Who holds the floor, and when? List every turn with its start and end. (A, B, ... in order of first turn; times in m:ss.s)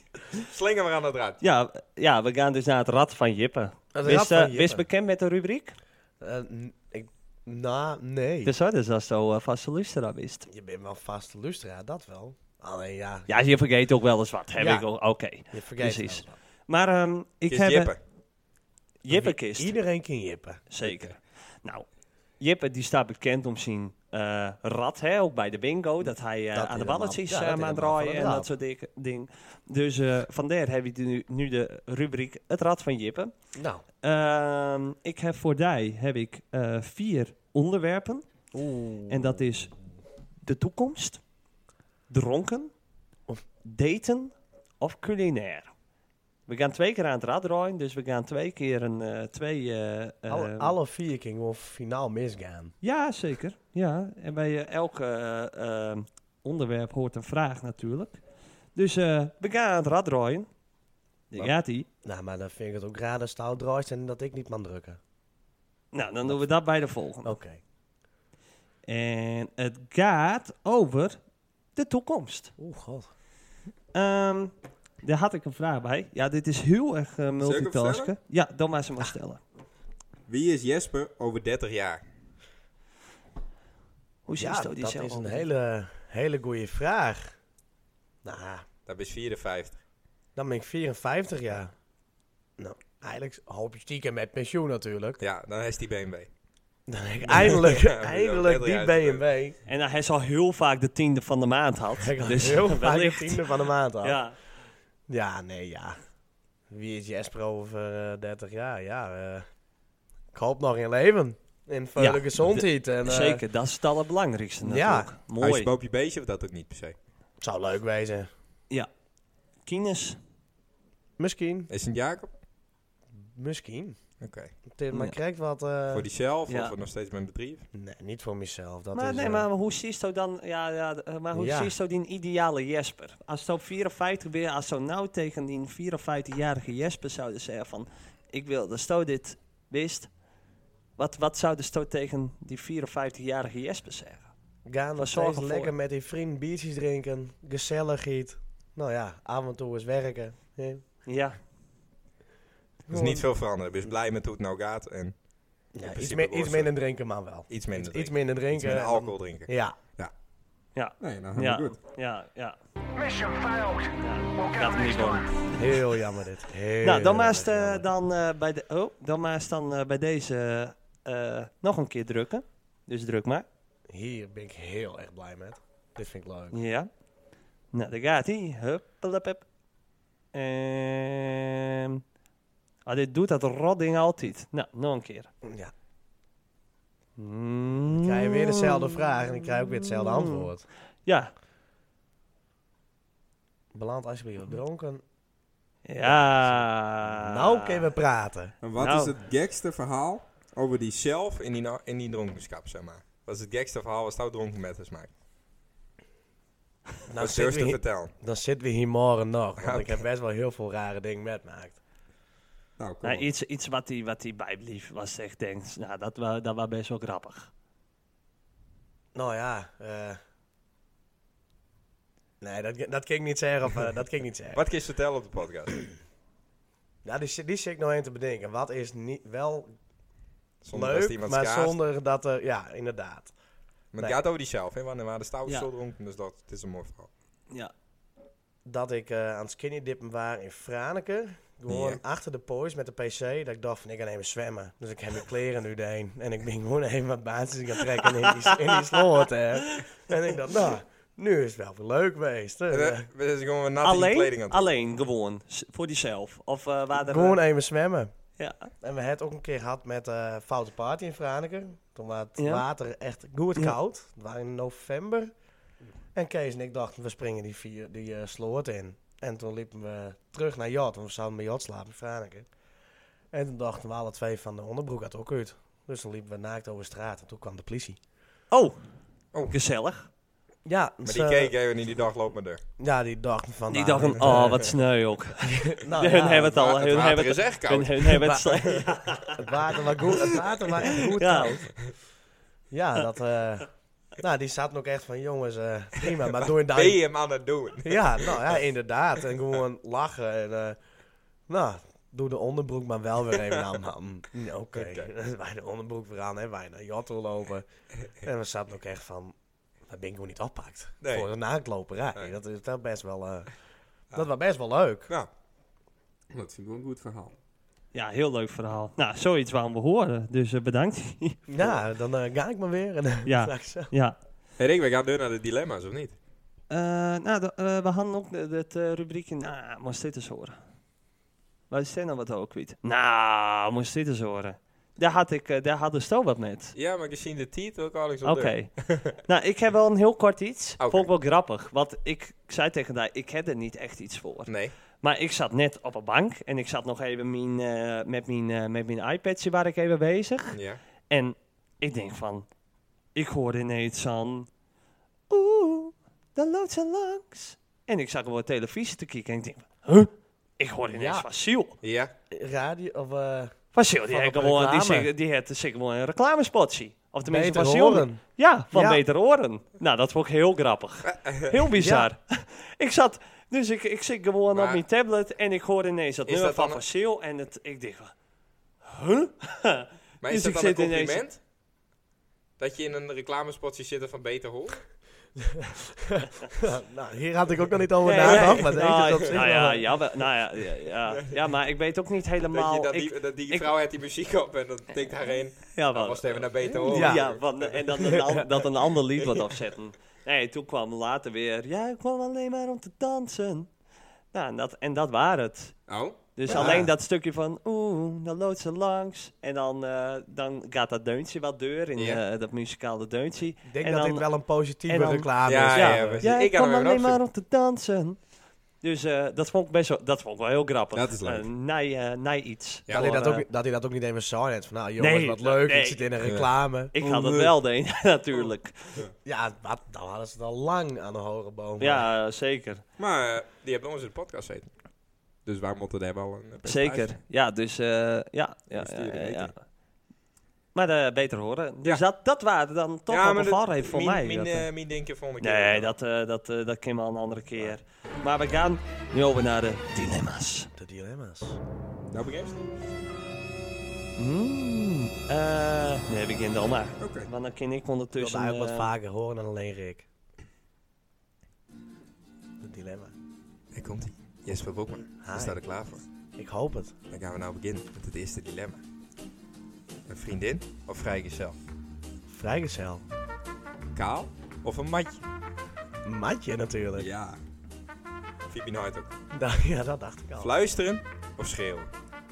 0:00.3-0:01.4 A
0:01.4-0:05.8 B
0:03.9-0:04.8 C
0:06.2-0:08.5 C
0:08.4-0:10.5 B
0:10.5-0:13.3 C
0:13.3-0:17.9 B
0:14.6-0:14.8 C
0:15.5-0:16.3 C
0:17.5-0:18.0 A
0:19.0-0:19.8 B
0:19.1-0:20.7 C
0:20.7-0:21.9 B
0:20.8-0:21.1 A
0:22.4-0:33.3 B
0:26.5-0:28.5 C
0:33.6-0:33.8 C
0:34.0-0:38.2 B
0:38.5-0:39.4 C
0:39.1-0:39.7 B
0:40.4-0:41.2 B
0:42.1-0:42.7 B
0:43.6-0:45.7 B
0:46.5-0:50.7 B
0:50.3-0:52.7 C
0:52.8-0:58.2 B
0:58.7-1:00.5 B
1:01.3-1:01.9 B
1:01.3-1:05.0 C
1:05.9-1:07.3 B
1:07.2-1:07.6 C
1:08.9-1:11.2 B
1:11.7-1:12.5 B
1:12.6-1:13.1 C
1:13.9-1:19.4 B
1:17.4-1:18.1 A
1:20.3-1:22.0 A
1:24.2-1:25.4 B
1:24.4-1:27.3 C
1:28.2-1:28.6 C
1:28.8-1:29.8 A
1:30.3-1:31.7 C
1:32.6-1:35.2 C
1:35.2-1:36.3 A
1:36.9-1:39.6 C
1:37.3-1:39.2 A
1:39.6-1:44.4 B
1:42.0-1:44.2 C
1:45.1-1:46.0 C
1:46.7-1:49.4 C
1:50.3-1:53.4 C
1:52.0-1:55.7 B
1:54.6-1:55.1 C
1:55.4-1:56.9 A
1:57.4-1:58.3 C
1:59.6-2:00.2 B
2:01.2-2:01.7 C
2:01.7-2:02.3 A
2:03.2-2:04.0 C
2:04.2-2:04.5 A
2:04.7-2:06.0 C
2:04.9-2:05.2 B
2:05.9-2:07.7 A
2:06.5-2:06.7 B
2:07.7-2:09.4 C
2:08.9-2:20.1 B
2:11.3-2:11.7 C
2:21.0-2:24.3 B
2:24.6-2:30.8 C
2:25.0-2:25.7 B
2:31.0-2:31.4 B
2:32.9-2:33.2 C
2:32.9-2:35.1 A
2:35.7-2:39.8 C
2:35.8-2:36.7 A
2:37.5-2:40.1 A
2:40.7-2:42.6 B
2:41.0-2:41.8 A
2:42.9-2:45.3 D
2:44.0-2:45.5 B
2:45.6-2:47.9 C
2:46.8-2:53.4 B
2:53.9-2:56.6 C
2:56.5-2:56.9 B
2:57.7-2:59.4 B
3:00.3-3:02.0 B
3:02.8-3:05.3 B
3:05.4-3:05.7 C
3:07.2-3:10.5 B
3:08.0-3:10.6 C
3:11.0-3:11.3 B
3:13.7-3:15.0 C
3:15.8-3:17.8 B
3:16.0-3:16.6 C
3:17.1-3:18.5 C
3:18.6-3:25.1 A
3:18.8-3:19.1 B
3:27.1-3:31.8 C
3:27.2-3:28.1 A
3:29.6-3:30.0 A
3:32.8-3:33.2 A
3:33.0-3:37.5 B
3:39.1-3:40.2 C
3:42.4-3:44.6 C
3:44.5-3:45.8 A
3:47.0-3:49.7 C
3:50.6-3:51.8 A
3:50.7-3:53.3 C
3:53.9-3:57.1 A
3:58.6-4:13.1 C
4:01.7-4:02.0 A
4:08.5-4:09.0 B
4:12.7-4:14.7 A
4:13.8-4:17.4 B
4:17.0-4:18.1 C
4:18.4-4:18.7 B
4:18.8-4:25.3 C
4:22.4-4:22.6 B
4:26.1-4:32.5 C
4:33.3-4:38.0 C
4:38.5-4:38.8 B
4:39.5-4:40.1 B
4:40.6-4:41.5 C
4:41.0-4:42.6 A
4:42.8-4:44.6 C
4:43.7-4:49.4 B
4:44.2-4:44.5 A
4:45.5-4:46.6 C
4:46.3-4:48.8 A
4:48.2-4:48.8 C
4:49.3-4:51.7 C
4:50.9-4:51.7 B
4:52.7-4:57.0 C
4:56.4-4:58.6 A
4:57.8-5:00.8 C
5:01.5-5:07.6 C
5:04.7-5:05.1 A
5:08.2-5:09.3 C
5:09.9-5:13.5 C
5:11.0-5:11.3 A
5:14.1-5:15.1 C
5:16.3-5:17.4 A
5:17.9-5:21.7 B
5:21.5-5:23.9 C
5:23.2-5:24.2 B
5:24.6-5:26.2 A
5:26.7-5:30.6 B
5:31.7-5:36.7 B
5:36.7-5:39.2 A
5:38.2-5:38.7 B
5:39.2-5:50.6 B
5:40.8-5:41.1 A
5:44.5-5:44.7 A
5:50.5-5:50.8 A
5:51.1-5:52.5 B
5:53.1-5:54.5 B
5:55.3-6:01.8 B
6:00.9-6:01.2 C
6:01.8-6:02.1 A
6:02.3-6:05.1 C
6:03.7-6:18.1 B
6:07.3-6:08.2 C
6:08.7-6:09.0 C
6:11.0-6:11.6 A
6:11.7-6:12.1 C
6:14.5-6:14.8 A
6:16.3-6:16.8 A
6:18.8-6:21.2 B
6:20.2-6:21.4 A
6:22.6-6:24.8 A
6:25.4-6:29.9 C
6:28.0-6:33.7 B
6:32.5-6:38.4 A
6:35.7-6:43.7 B
6:36.8-6:37.2 C
6:44.3-6:45.7 B
6:45.9-6:46.9 A
6:46.4-6:54.2 B
6:46.4-6:46.9 C
6:53.6-6:56.2 C
6:54.9-6:58.2 B
6:55.4-6:57.2 A
6:58.8-7:03.4 B
7:00.9-7:01.5 A
7:02.9-7:06.9 C
7:05.0-7:06.0 B
7:06.2-7:07.5 A
7:06.9-7:09.0 B
7:09.2-7:12.0 C
7:11.8-7:12.8 B
7:13.0-7:14.7 A
7:15.4-7:17.1 A
7:16.6-7:19.6 B
7:18.7-7:19.5 A
7:20.7-7:24.6 B
7:23.1-7:25.9 A
7:25.4-7:30.7 B
7:30.8-7:31.6 C
7:32.1-7:32.6 A
7:34.2-7:38.9 B
7:37.0-7:37.3 A
7:38.2-7:40.1 C
7:42.6-7:43.1 C
7:43.7-7:46.0 A
7:45.2-7:45.6 C
7:46.4-7:46.9 C
7:47.1-7:48.8 A
7:50.1-7:51.6 A
7:52.3-7:53.0 C
7:53.9-7:55.2 A
7:56.0-7:57.1 C
7:57.0-7:57.4 A
7:58.5-7:59.1 A
7:59.3-8:00.5 C
8:00.4-8:01.9 A